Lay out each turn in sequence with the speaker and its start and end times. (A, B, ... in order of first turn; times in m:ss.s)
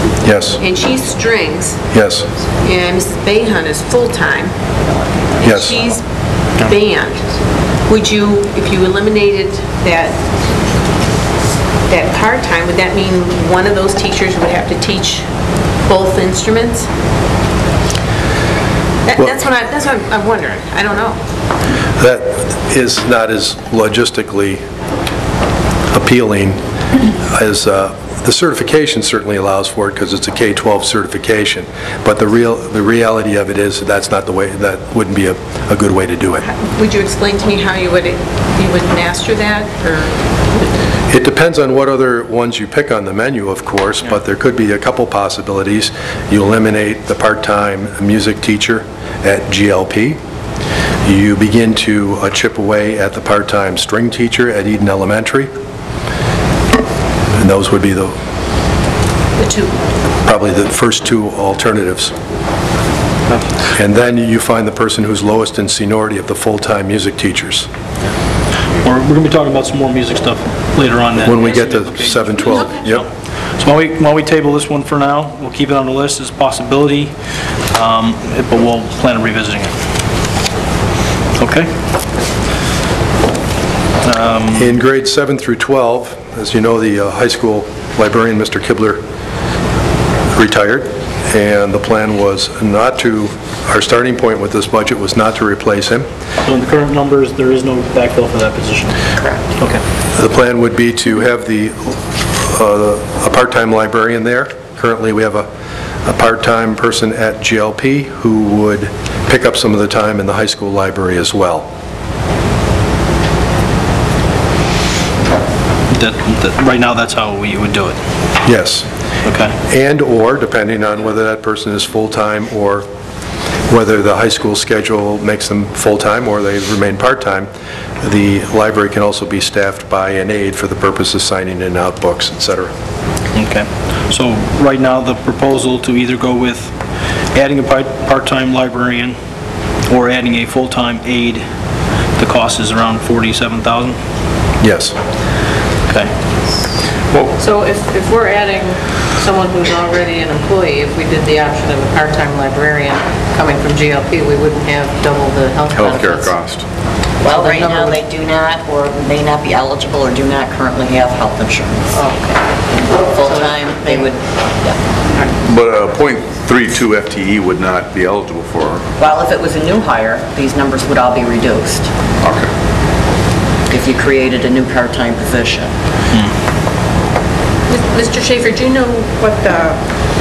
0:00.2-0:00.6 A
0:00.6-0:01.8 B
0:01.9-0:02.3 A
0:02.6-0:04.5 B
0:05.4-0:06.0 B
0:05.4-0:05.8 A
0:06.6-0:07.2 B
0:07.9-0:10.2 B
0:11.9-0:15.2 B
0:15.8-0:16.9 B
0:19.0-0:21.2 B
0:22.0-0:24.6 A
0:25.9-0:26.6 A
0:27.2-0:36.4 A
0:36.4-0:40.7 B
0:41.1-0:50.2 A
0:51.0-0:55.5 A
0:57.4-0:58.1 A
0:59.4-0:59.8 B
1:00.2-1:02.2 A
1:03.7-1:07.7 A
1:08.8-1:13.1 C
1:11.2-1:13.0 A
1:13.6-1:17.1 C
1:17.7-1:19.7 C
1:21.4-1:21.7 C
1:24.0-1:24.8 C
1:24.6-1:29.0 A
1:30.3-1:36.1 A
1:36.4-1:38.9 C
1:40.1-1:45.5 A
1:46.0-1:51.7 A
1:55.9-1:58.0 C
1:58.4-1:58.9 A
1:59.2-1:59.6 C
1:59.7-2:02.8 A
2:03.7-2:07.5 A
2:08.0-2:12.7 A
2:13.3-2:16.7 C
2:17.3-2:19.2 C
2:19.9-2:21.4 C
2:22.2-2:24.0 C
2:24.6-2:25.0 A
2:27.4-2:36.4 D
2:35.7-2:36.6 E
2:37.2-2:42.0 F
2:37.3-2:38.0 D
2:41.9-2:44.1 D
2:42.9-2:44.8 F
2:45.1-2:45.4 D
2:45.4-2:48.9 E
2:49.0-2:51.9 F
2:52.2-2:52.5 E
2:53.7-2:55.7 F
2:57.7-2:59.8 B